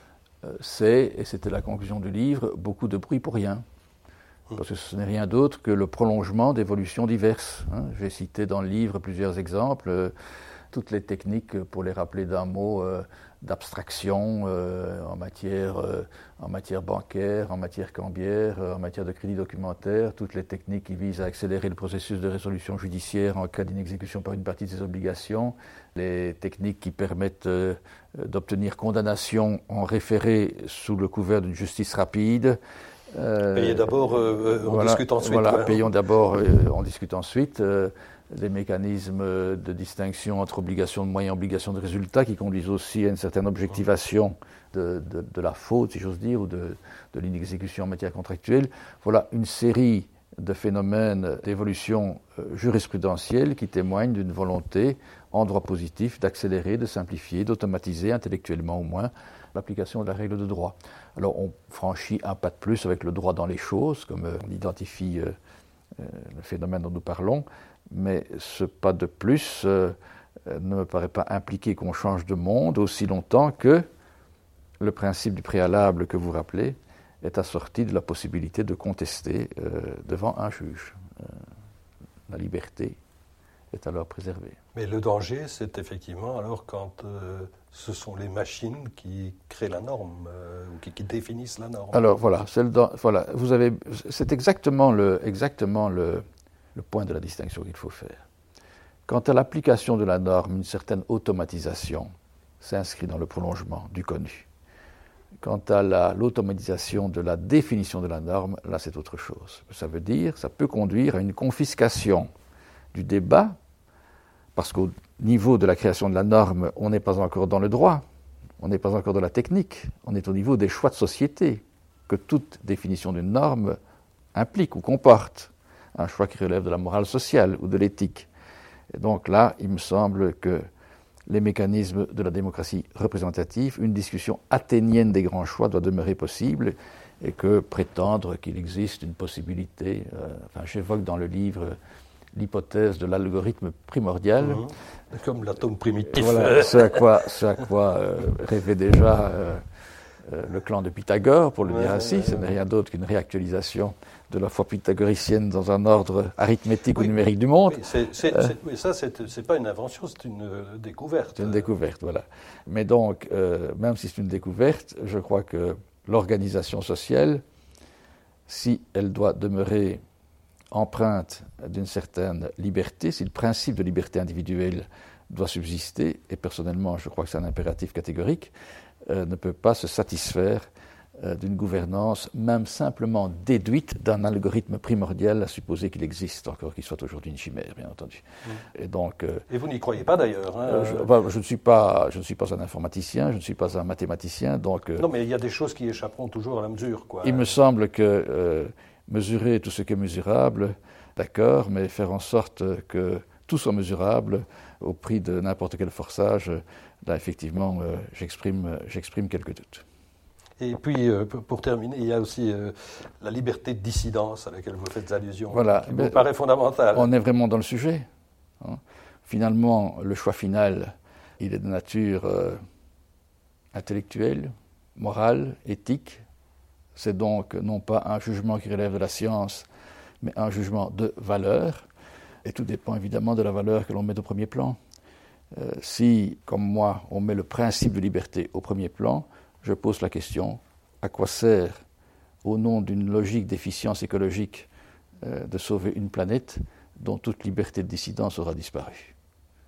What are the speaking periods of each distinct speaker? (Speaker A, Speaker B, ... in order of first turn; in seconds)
Speaker A: 0.4-3.6, 4.5-10.1, 10.7-32.6, 33.1-65.3, 66.0-73.8, 74.8-81.4, 82.3-83.0, 83.7-84.6, 91.9-98.2, 99.1-102.1, 102.6-104.5, 105.4-112.3, 112.9-113.6, 114.5-118.0, 118.6-123.8, 124.3-128.3, 128.9-130.6, 131.3-141.8, 142.3-144.7, 146.1-149.6, 150.2-158.5, 161.4-167.4, 168.5-170.0, 170.7-178.5, 179.1-180.7, 181.2-188.2, 188.7-189.4, 190.7-195.0, 197.2-209.8, 215.5-216.2, 216.9-218.1, 218.6-222.6, 223.7-226.2, 226.9-229.7, 230.2-231.8, 232.4-234.8, 235.5-241.8, 242.4-244.7, 245.2-249.1
Speaker B: 33.5-35.9, 84.7-92.0, 144.4-147.1, 151.6-152.5, 157.7-161.7, 189.5-191.1, 195.0-197.6, 210.6-217.1